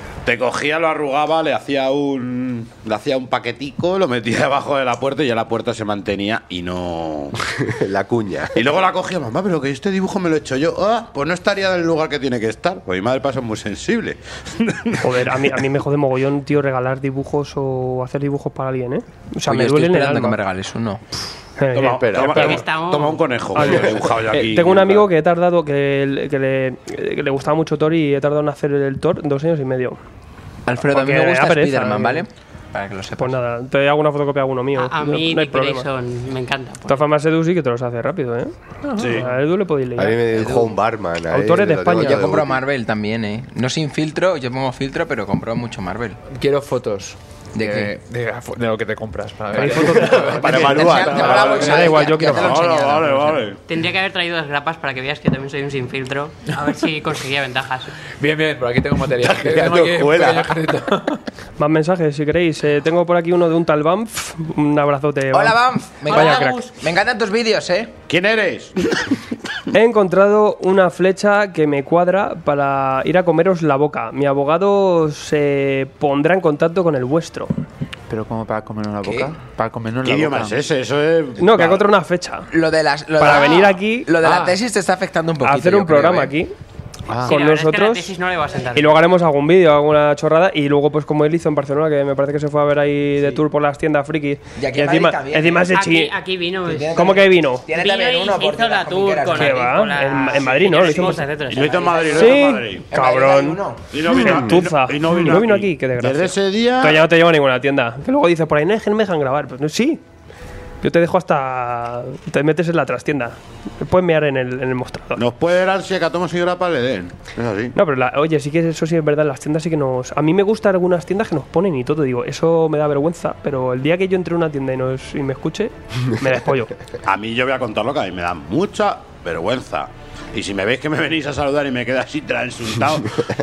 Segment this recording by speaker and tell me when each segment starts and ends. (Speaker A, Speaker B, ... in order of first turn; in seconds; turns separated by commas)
Speaker A: 0.2-7.4, Speaker B: 7.6-8.6, Speaker A: 8.6-15.5, Speaker C: 15.0-20.4, Speaker D: 19.4-21.0, Speaker C: 21.6-22.6, Speaker A: 21.8-25.1, Speaker B: 21.9-22.6, Speaker E: 22.3-23.2, Speaker C: 23.5-30.0, Speaker D: 30.7-33.4, Speaker C: 30.9-32.2, Speaker C: 33.2-35.9, Speaker E: 34.8-37.0, Speaker C: 36.9-40.2, Speaker F: 38.8-39.3, Speaker A: 39.0-39.3, Speaker B: 40.0-42.6, Speaker D: 40.4-40.7, Speaker C: 41.3-42.2, Speaker D: 41.9-46.2, Speaker F: 46.3-52.2, Speaker D: 47.5-47.9, Speaker C: 49.5-50.9, Speaker B: 49.7-51.5, Speaker D: 50.6-53.4, Speaker A: 51.1-53.6, Speaker C: 51.5-52.5, Speaker E: 53.7-57.9, Speaker F: 58.2-61.2, Speaker B: 59.2-60.6, Speaker C: 61.6-66.6, Speaker D: 65.3-67.9, Speaker E: 66.1-66.7, Speaker A: 68.1-69.2, Speaker C: 69.7-77.5, Speaker F: 78.1-80.7, Speaker D: 79.0-79.3, Speaker A: 80.0-81.8, Speaker C: 81.4-82.5, Speaker D: 82.5-86.3, Speaker C: 83.2-84.1, Speaker F: 84.2-84.6, Speaker C: 85.4-86.5, Speaker F: 87.1-87.3, Speaker E: 87.2-88.9, Speaker C: 87.2-88.1, Speaker C: 88.8-96.1, Speaker D: 94.6-95.8, Speaker E: 95.7-97.0, Speaker D: 96.7-99.8, Speaker C: 97.0-97.7, Speaker E: 97.8-102.2, Speaker C: 99.3-101.3, Speaker A: 101.5-102.8, Speaker D: 101.5-103.9, Speaker C: 102.1-110.0, Speaker A: 103.9-107.1, Speaker C: 110.8-115.2, Speaker A: 115.2-117.8, Speaker C: 117.8-126.7, Speaker A: 127.0-133.2